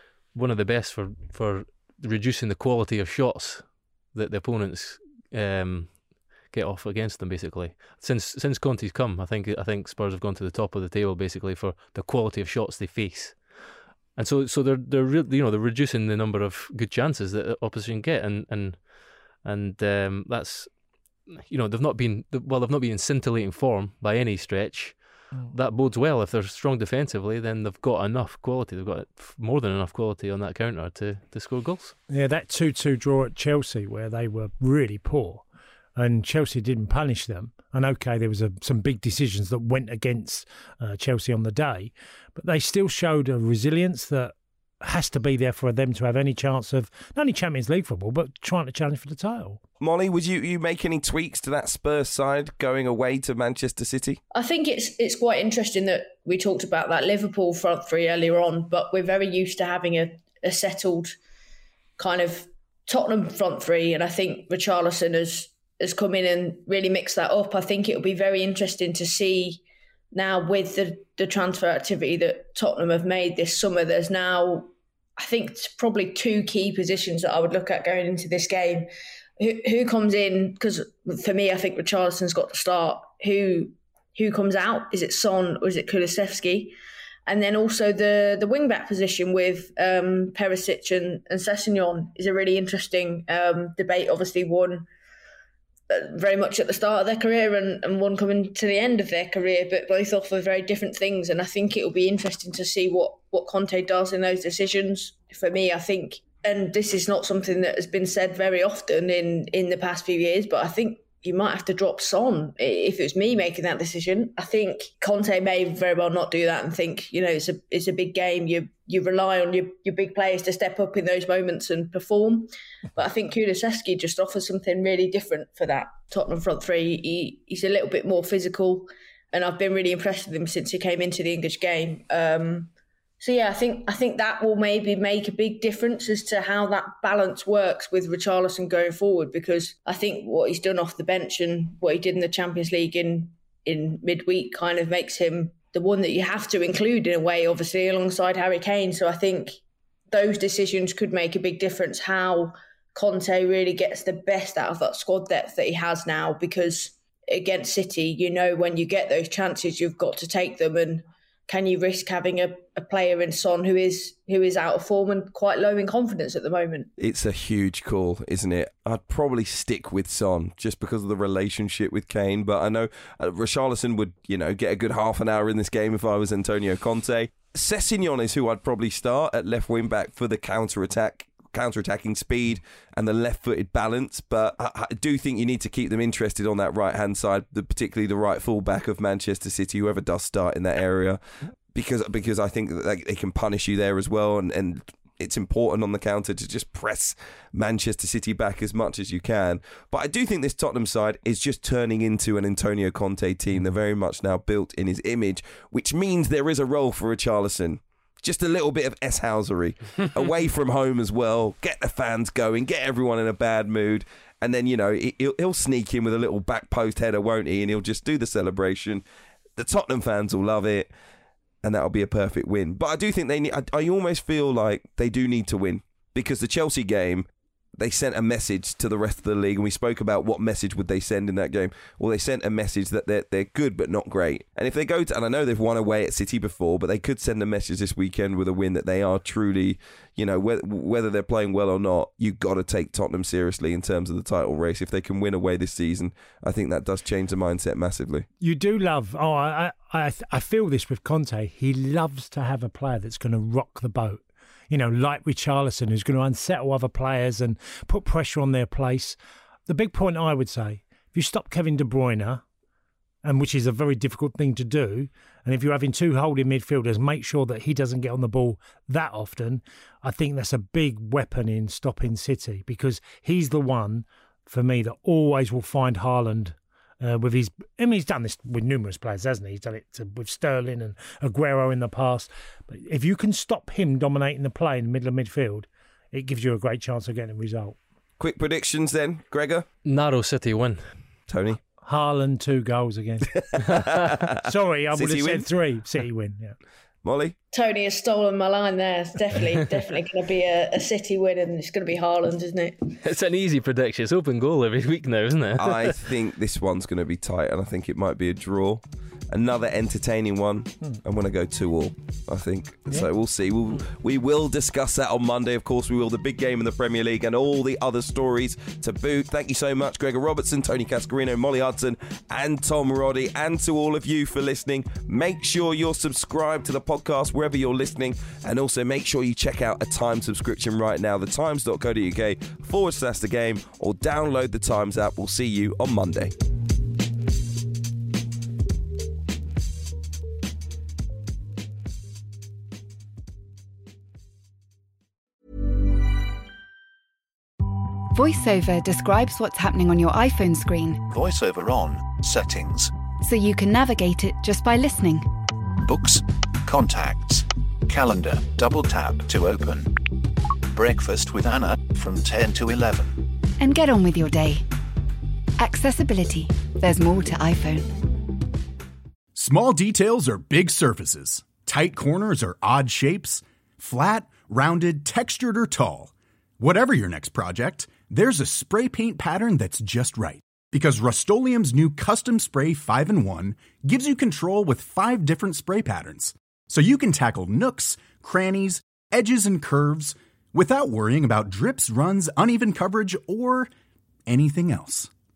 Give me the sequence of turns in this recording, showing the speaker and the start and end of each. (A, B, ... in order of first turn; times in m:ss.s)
0:00.3-0:13.6 A
0:14.2-0:20.7 A
0:21.3-0:32.0 A
0:32.1-0:35.4 B
0:36.0-0:49.6 B
0:49.8-0:54.2 C
0:54.3-1:01.1 D
1:02.0-1:18.9 D
1:19.4-1:26.7 D
1:27.3-1:34.8 D
1:35.9-2:29.6 D
2:30.1-2:46.9 D
2:47.0-3:11.2 C
3:11.7-3:39.0 C
3:39.6-3:40.9 C
3:41.6-3:47.3 C
3:47.8-4:08.2 C
4:08.4-4:19.2 B
4:19.7-4:22.4 B
4:23.2-4:47.8 B
4:48.2-4:49.6 C
4:49.8-4:50.8 A
4:51.3-4:51.6 C
4:51.8-4:53.3 B
4:53.5-4:54.4 C
4:54.4-4:56.6 B
4:54.9-4:55.5 C
4:57.0-4:57.3 C
4:57.5-5:02.8 D
5:03.0-5:06.0 A
5:05.6-5:36.3 C
5:48.1-5:51.0 E
5:51.1-5:52.9 F
5:53.2-5:55.3 E
5:55.8-6:00.0 F
6:00.7-6:03.3 F
6:03.6-6:04.6 E
6:05.6-6:08.0 E
6:09.3-6:33.7 G
6:34.2-6:35.1 G